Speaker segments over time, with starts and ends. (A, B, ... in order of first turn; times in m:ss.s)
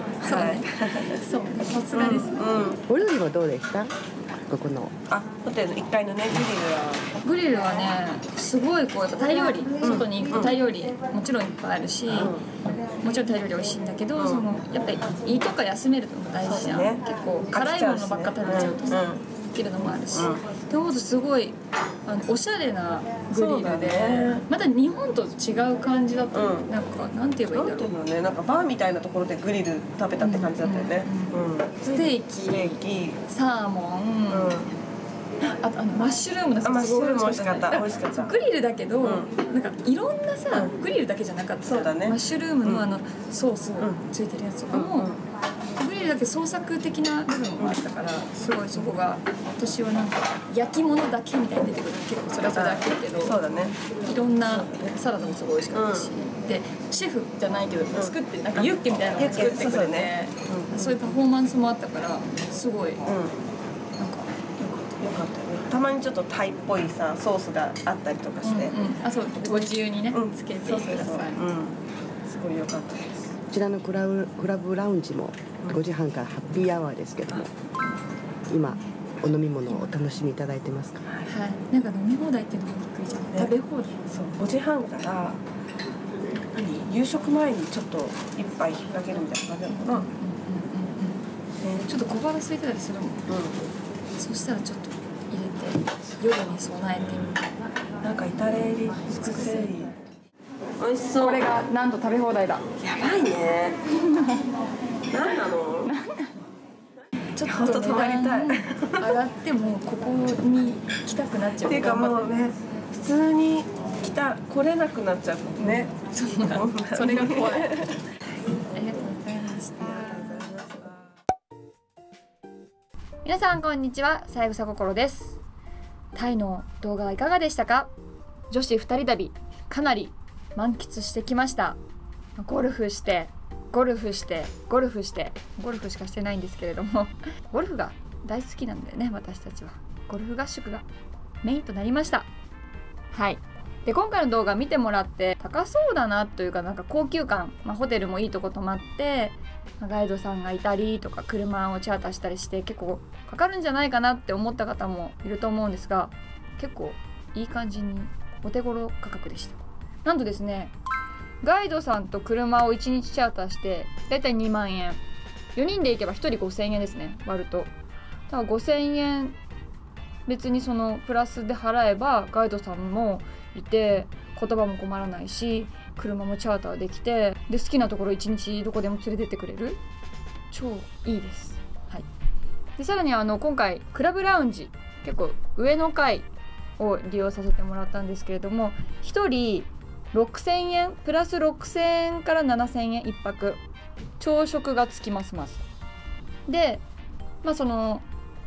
0:00.2-0:02.4 A
0:00.2-0:01.2 B
0:01.9-0:02.8 B
0:02.9-0:04.9 C
0:05.1-0:07.0 B
0:07.2-0:12.3 A
0:09.8-0:10.5 B
0:12.1-0:12.4 B
0:13.0-0:27.9 A
0:14.2-0:14.4 B
0:16.4-0:19.2 B
0:20.1-0:20.4 B
0:23.3-0:24.4 B
0:26.3-0:26.7 B
0:27.5-0:33.2 B
0:30.2-0:32.8 A
0:33.3-0:34.7 A
0:34.3-0:34.7 B
0:35.4-0:45.2 A
0:36.6-0:38.3 B
0:39.0-0:39.3 B
0:41.6-0:42.8 B
0:44.7-0:45.2 B
0:45.8-1:03.0 A
0:52.5-0:53.7 B
0:55.7-0:56.1 B
0:57.9-1:01.0 B
1:03.0-1:03.4 B
1:04.0-1:05.0 A
1:05.0-1:08.7 B
1:08.4-1:11.5 A
1:09.4-1:13.3 B
1:13.5-1:17.5 C
1:18.5-1:21.0 C
1:21.3-1:24.0 A
1:24.1-1:25.4 B
1:26.7-1:30.1 B
1:29.7-1:31.2 A
1:31.7-1:33.2 A
1:33.3-1:33.6 B
1:34.2-1:37.4 A
1:38.0-1:39.9 B
1:39.1-1:39.9 A
1:40.8-1:41.4 B
1:41.1-1:42.6 A
1:42.8-1:43.8 B
1:43.9-1:44.5 A
1:45.1-1:45.9 B
1:45.8-1:46.3 A
1:47.3-1:52.5 A
1:47.4-1:49.1 B
1:51.6-1:58.0 B
1:55.6-1:57.8 A
1:58.7-2:00.7 A
2:03.2-2:05.4 A
2:06.1-2:07.9 A
2:08.5-2:11.8 A
2:12.4-2:20.8 A
2:21.4-2:22.3 A
2:23.1-2:40.7 A
2:41.4-2:45.0 A
2:45.5-2:47.7 A
2:48.3-2:49.4 A
2:50.2-2:59.8 A
3:00.5-3:02.1 A
3:02.8-3:06.3 A
3:06.8-3:13.6 A
3:14.2-3:15.6 A
3:16.5-3:16.8 A
3:17.4-3:18.0 A